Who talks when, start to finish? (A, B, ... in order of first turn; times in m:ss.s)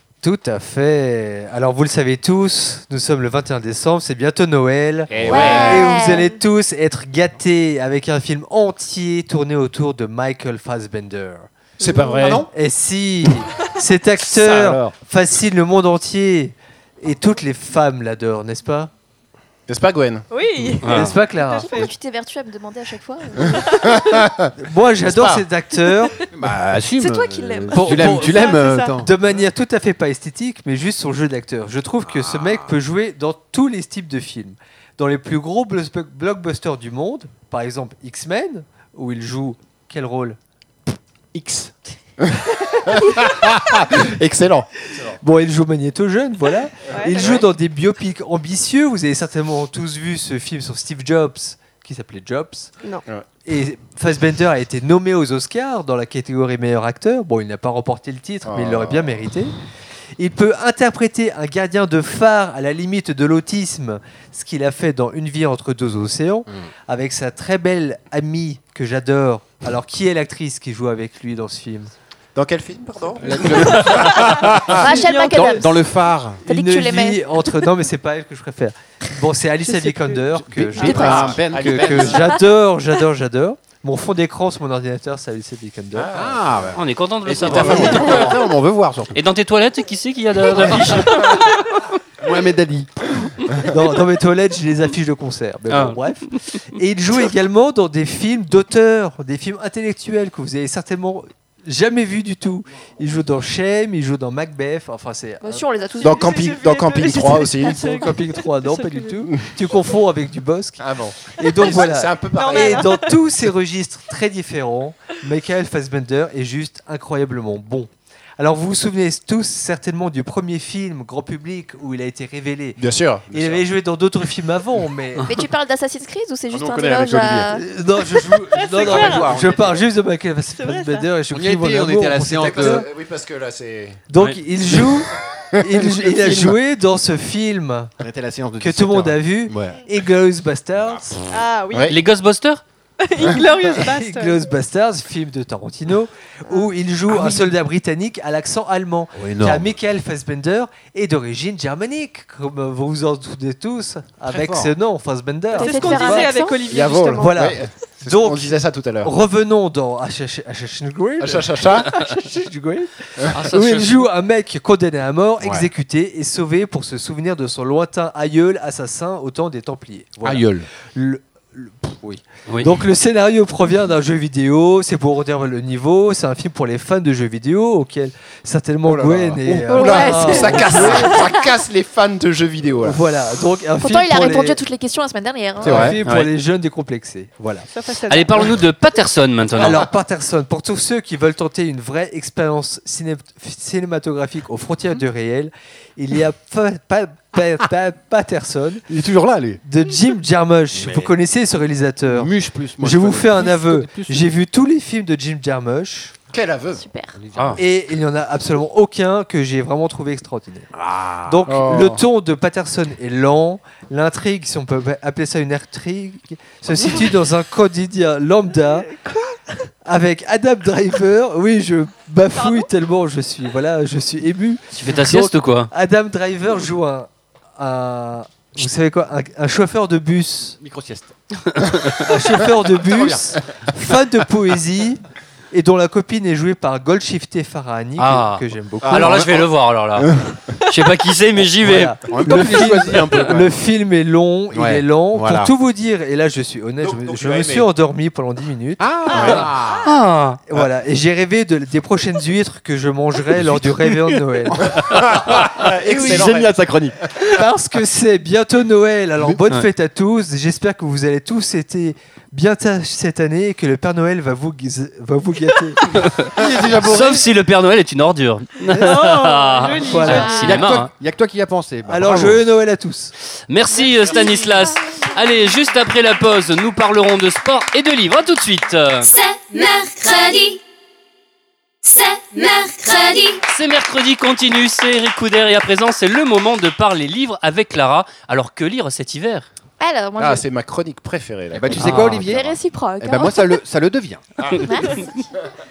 0:00.2-0:11.5 A
0:05.1-0:06.0 B
0:05.2-0:05.5 C
0:05.2-0:06.3 D
0:06.0-0:06.4 E
0:11.8-0:12.4 E
0:11.8-0:12.5 B
0:12.2-0:12.5 C
0:12.5-0:18.9 A
0:14.2-0:14.9 B
0:19.7-0:20.3 B
0:20.3-0:21.9 E
0:20.8-0:21.2 F
0:20.9-0:21.7 A
0:21.6-0:24.0 D
0:23.5-0:24.0 E
0:23.8-0:24.5 B
0:24.6-0:26.2 A
0:25.1-0:25.4 B
0:26.3-0:29.1 C
0:27.0-0:27.8 D
0:27.7-0:40.4 A
0:27.8-0:29.0 E
0:32.1-0:32.7 C
0:41.3-0:41.7 C
0:42.2-0:45.1 B
0:45.0-0:52.7 A
0:46.9-0:47.5 E
0:53.4-0:59.5 A
0:58.5-0:59.2 B
1:00.2-1:11.9 A
1:12.4-1:14.8 B
1:13.2-1:16.4 C
1:13.9-1:15.7 E
1:14.7-1:15.7 D
1:16.4-1:26.1 A
1:16.4-1:17.2 D
1:19.8-1:20.2 E
1:20.4-1:22.4 C
1:20.8-1:21.1 E
1:20.8-1:21.3 D
1:20.9-1:22.3 B
1:25.9-1:26.6 B
1:26.1-1:29.2 C
1:26.8-1:28.4 F
1:27.5-1:28.2 B
1:29.1-1:31.5 F
1:30.5-1:31.3 C
1:32.2-1:33.0 C
1:33.6-1:45.6 A
1:35.7-1:36.6 F
1:45.4-1:46.4 D
1:46.0-1:49.3 E
1:46.0-1:47.9 B
1:47.6-1:50.8 A
1:50.8-1:53.0 B
1:51.4-2:05.3 A
1:52.3-1:53.1 E
2:02.8-2:03.6 B
2:05.2-2:07.6 D
2:06.5-2:07.5 C
2:07.5-2:12.9 A
2:08.5-2:09.4 E
2:08.6-2:09.8 C
2:10.5-2:11.1 E
2:11.3-2:12.9 C
2:12.4-2:14.0 B
2:14.1-2:17.9 A
2:15.8-2:16.3 B
2:18.0-2:19.8 C
2:18.6-2:21.2 A
2:21.3-2:22.0 E
2:21.7-2:22.0 B
2:21.9-2:22.6 F
2:23.0-2:24.5 E
2:23.6-2:36.3 A
2:27.1-2:27.5 C
2:29.2-2:29.8 C
2:34.3-2:34.7 C
2:35.5-2:37.6 E
2:35.6-2:36.6 D
2:36.7-2:39.1 B
2:37.2-2:52.0 A
2:41.2-2:41.9 B
2:43.4-2:44.0 F
2:45.4-2:45.7 C
2:50.2-2:50.7 C
2:52.5-2:52.8 F
2:52.6-3:01.2 A
2:58.9-3:03.0 B
2:59.7-3:01.4 D
3:02.8-3:04.6 A
3:03.8-3:06.0 D
3:05.6-3:06.0 B
3:05.6-3:07.7 A
3:07.7-3:08.5 E
3:08.1-3:09.9 F
3:09.6-3:18.9 A
3:18.9-3:19.6 C
3:19.6-3:26.1 A
3:20.7-3:21.1 C
3:22.1-3:24.3 C
3:26.3-3:26.8 B
3:26.7-3:27.2 D
3:27.2-3:27.6 C
3:27.6-3:30.7 A
3:30.7-3:31.4 C
3:31.2-3:38.9 A
3:31.5-3:32.0 B
3:38.9-3:39.4 E
3:39.8-3:50.6 A
3:42.3-3:42.7 E
3:44.8-3:45.7 F
3:50.6-3:51.1 C
3:52.0-3:55.0 A
3:52.7-3:53.4 C
3:55.5-3:59.2 A
3:58.0-4:02.0 F
3:58.8-3:59.4 C
4:01.6-4:09.4 A
4:02.0-4:03.6 C
4:04.5-4:05.5 C
4:06.8-4:07.7 B
4:08.8-4:09.9 C
4:09.1-4:09.4 B
4:09.8-4:10.4 F
4:10.5-4:14.7 A
4:14.5-4:17.0 C
4:14.8-4:16.6 B
4:15.9-4:16.3 A
4:17.2-4:25.8 A
4:25.9-4:30.9 F
4:26.4-4:27.2 C
4:26.4-4:26.8 A
4:28.8-4:30.6 E
4:29.6-4:30.5 A
4:30.3-4:32.4 C
4:31.9-4:33.1 A
4:33.5-4:39.1 F
4:39.0-4:40.6 G
4:41.8-4:43.4 G
4:43.5-4:49.5 F
4:49.8-4:50.4 D
4:50.2-4:52.6 B
4:51.5-4:54.3 C
4:51.8-4:52.2 F
4:51.9-4:53.6 D
4:54.5-4:55.1 D